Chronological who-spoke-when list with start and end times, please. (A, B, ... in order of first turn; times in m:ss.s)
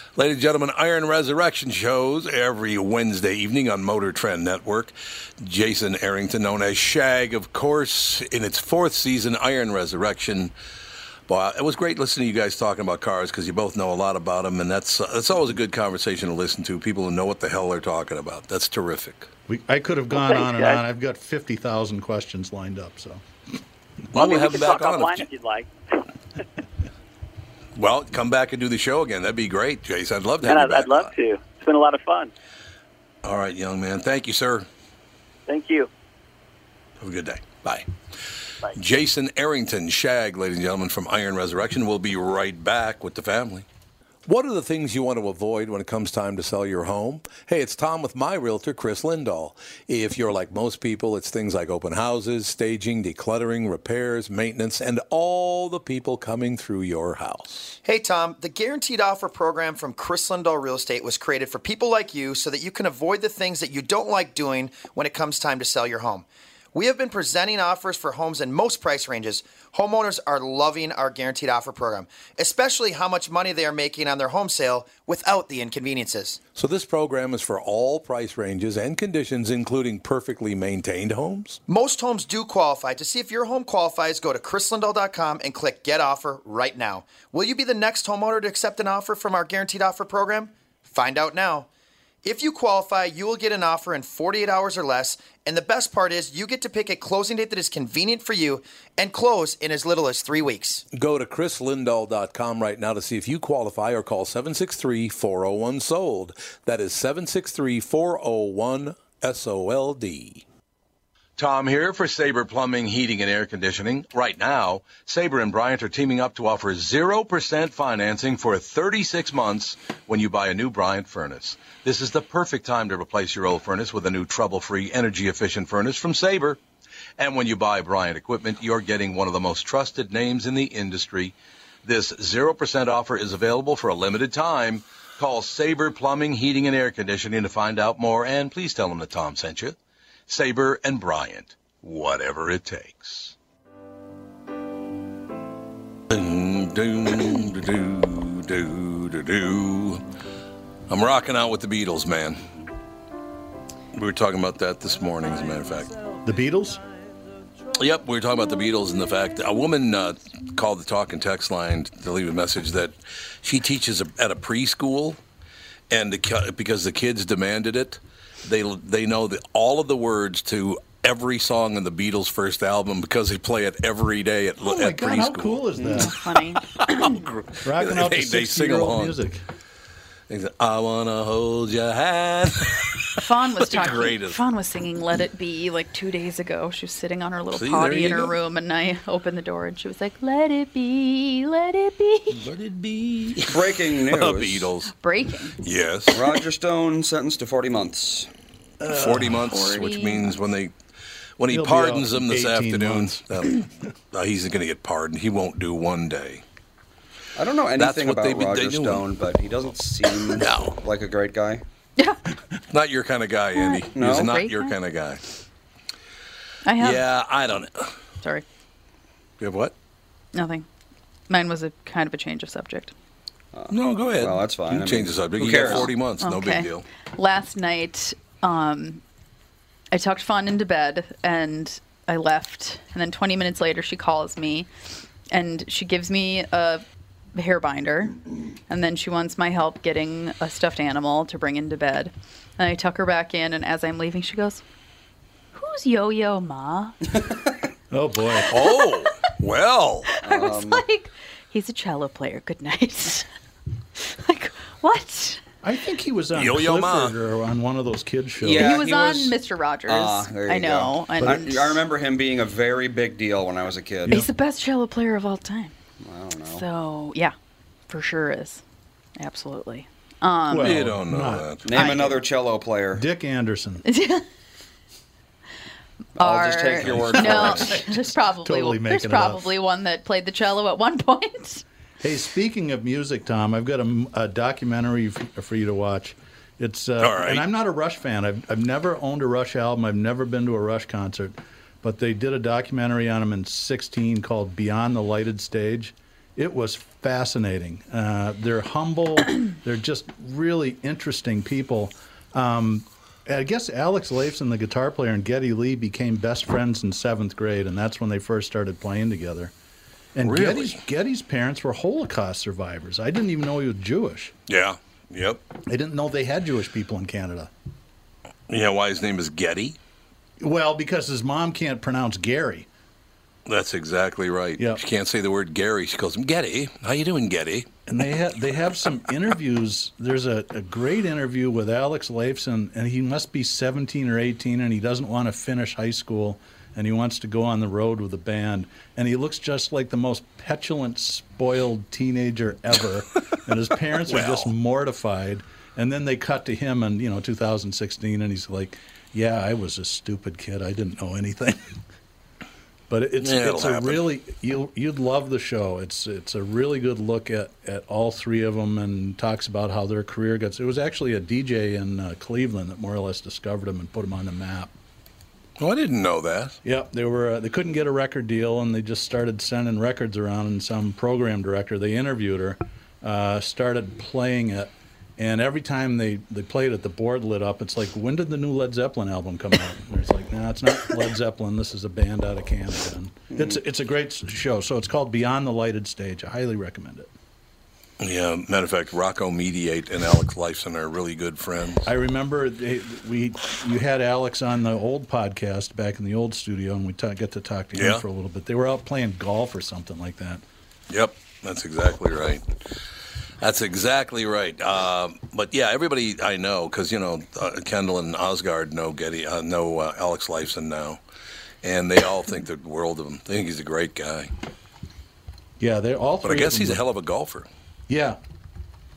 0:00.2-0:10.5 A
0:11.3-0:19.3 A
0:19.5-0:23.2 B
0:20.1-0:20.8 C
0:24.1-0:25.3 A
0:24.1-0:25.7 C
0:27.8-0:31.1 A
0:30.4-0:32.3 C
0:33.2-0:34.7 A
0:35.5-0:35.9 C
0:37.0-0:37.9 A
0:38.7-0:43.6 A
0:44.2-0:57.8 A
0:57.8-1:16.4 D
1:16.5-1:21.6 A
1:21.7-1:31.7 D
1:32.2-1:40.8 D
1:40.9-1:50.4 A
1:51.4-2:06.6 A
2:07.2-2:19.8 A
2:20.3-2:23.3 A
2:26.1-2:30.0 A
2:30.9-2:32.4 A
2:33.9-2:36.0 A
2:36.2-2:36.8 B
2:37.7-2:45.2 A
2:45.9-2:56.1 A
2:54.6-2:56.1 B
2:55.8-2:57.2 E
2:56.7-2:59.1 A
2:57.6-2:59.4 B
3:00.3-3:04.4 A
3:03.2-3:12.5 E
3:07.5-3:08.3 A
3:12.3-3:14.9 A
3:13.4-3:14.7 F
3:14.9-3:15.6 E
3:15.6-3:16.3 A
3:16.1-3:18.3 F
3:18.8-3:19.5 B
3:18.9-3:20.7 A
3:19.3-3:20.3 E
3:21.4-3:26.4 A
3:21.5-3:23.6 B
3:27.4-3:31.6 F
3:27.8-3:29.1 A
3:30.3-3:30.8 A
3:32.7-3:35.2 A
3:33.6-3:34.7 E
3:34.0-3:34.3 F
3:36.6-3:37.0 E
3:36.8-3:38.0 A
3:39.4-3:39.7 A
3:40.3-3:40.6 E
3:41.3-3:42.9 E
3:43.5-3:45.9 F
3:43.7-3:46.8 A
3:46.2-3:49.0 E
3:49.9-3:54.7 E
3:55.3-3:56.8 E
3:57.3-4:04.6 E
4:05.5-4:07.1 E
4:07.9-4:08.5 B
4:08.4-4:09.1 E
4:08.5-4:10.1 A
4:10.1-4:13.2 E
4:10.2-4:10.8 F
4:14.0-4:15.4 E
4:15.6-4:18.8 B
4:16.3-4:17.2 A
4:18.4-4:24.2 F
4:18.5-4:21.8 E
4:24.1-4:25.7 E
4:26.0-4:26.6 F
4:26.5-4:27.3 E
4:27.9-4:28.6 E
4:29.2-4:30.8 E
4:30.5-4:32.1 B
4:30.6-4:32.0 A
4:31.6-4:33.0 F
4:31.8-4:32.2 E
4:32.9-4:33.8 B
4:33.8-4:34.2 E
4:36.2-4:41.6 E
4:36.2-4:37.8 F
4:36.8-4:37.5 A
4:37.0-4:39.4 B
4:42.0-5:09.5 B
4:47.0-4:47.4 A
5:10.1-5:14.3 B
5:10.2-5:10.8 A
5:14.5-5:15.4 A
5:15.7-5:17.5 B
5:18.5-5:19.8 A
5:20.4-5:22.7 B
5:23.4-5:27.7 A
5:27.9-5:51.7 B
5:44.1-5:44.5 A
5:52.9-6:04.7 B
5:53.2-5:54.0 A
6:05.6-6:06.6 A
6:06.6-6:27.1 B
6:23.3-6:23.6 F
6:28.0-6:31.9 A
6:31.8-6:40.4 B
6:37.7-6:38.0 A
6:40.9-6:42.4 A
6:43.4-6:51.0 A
6:51.6-6:54.3 A
6:55.6-6:56.8 B
6:56.2-6:57.5 A
6:57.9-6:58.2 B